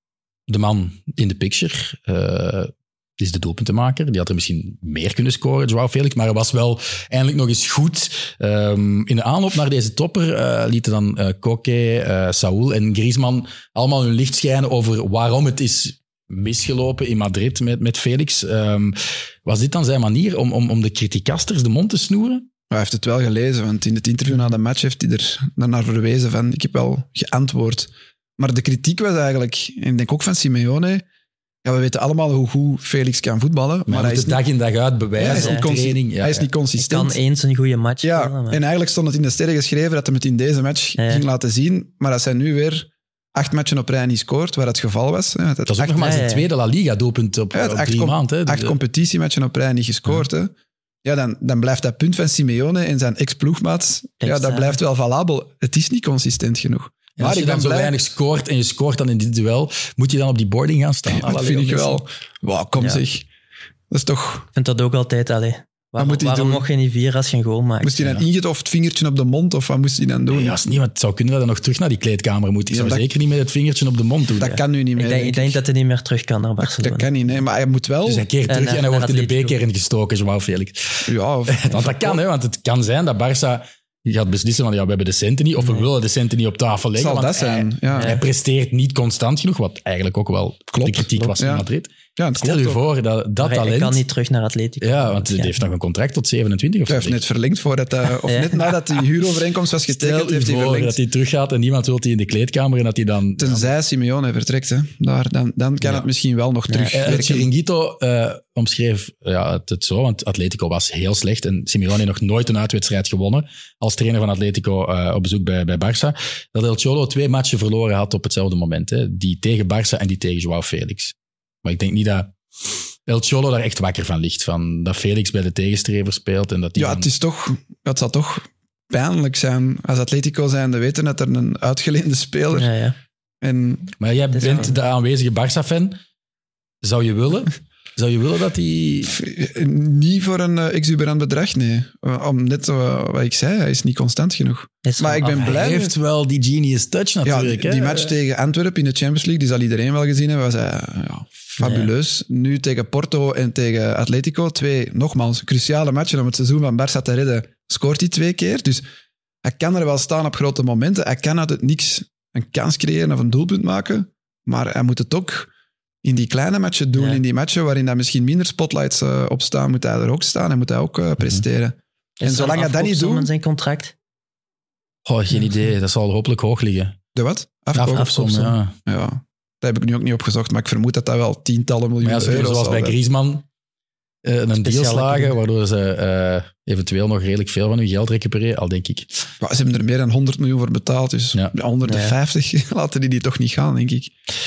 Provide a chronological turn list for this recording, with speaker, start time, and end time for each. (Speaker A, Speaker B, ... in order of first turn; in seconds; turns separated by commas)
Speaker A: 0.5-22.5, Speaker B: 22.7-31.1, Speaker B: 31.6-34.4, Speaker A: 33.9-36.5, Speaker B: 35.2-37.2, Speaker C: 35.2-35.7, Speaker C: 36.8-38.6, Speaker B: 38.0-46.3, Speaker C: 41.0-41.2, Speaker A: 45.7-48.8, Speaker C: 46.0-46.5, Speaker B: 47.5-50.5, Speaker B: 51.0-58.0, Speaker C: 54.2-54.8, Speaker A: 57.2-62.0, Speaker B: 61.1-63.3, Speaker B: 63.9-64.5, Speaker C: 64.5-68.0, Speaker B: 66.0-66.7, Speaker B: 67.8-70.6, Speaker A: 70.3-74.6, Speaker B: 72.7-73.1, Speaker B: 74.4-75.6, Speaker C: 75.0-77.1, Speaker B: 76.6-78.2, Speaker A: 78.1-94.0, Speaker C: 78.5-79.6, Speaker B: 81.1-82.2, Speaker C: 85.6-85.9, Speaker B: 87.0-88.2, Speaker C: 87.9-88.2, Speaker B: 90.7-92.8, Speaker C: 93.4-95.6, Speaker A: 94.8-97.2, Speaker B: 96.9-101.0, Speaker C: 98.2-98.8, Speaker A: 99.9-103.7, Speaker B: 103.4-107.5, Speaker A: 105.8-106.1, Speaker C: 106.7-107.0, Speaker A: 106.9-127.1, Speaker B: 126.8-132.7, Speaker C: 132.5-133.0, Speaker B: 133.4-134.7, Speaker A: 134.0-136.0, Speaker C: 134.3-134.7, Speaker A: 136.8-139.2, Speaker B: 139.1-145.9, Speaker C: 144.8-145.7, Speaker A: 145.4-148.2, Speaker B: 147.2-158.8, Speaker C: 151.6-151.9, Speaker B: 159.4-165.5, Speaker B: 166.0-173.3, Speaker C: 167.0-167.2, Speaker C: 172.2-173.9, Speaker A: 175.1-176.9, Speaker B: 177.2-178.2, Speaker A: 177.8-178.8, Speaker C: 177.9-178.6, Speaker B: 178.9-183.0, Speaker A: 182.0-183.4, Speaker A: 184.2-189.3, Speaker C: 184.6-185.4, Speaker B: 189.4-194.1, Speaker C: 191.8-192.2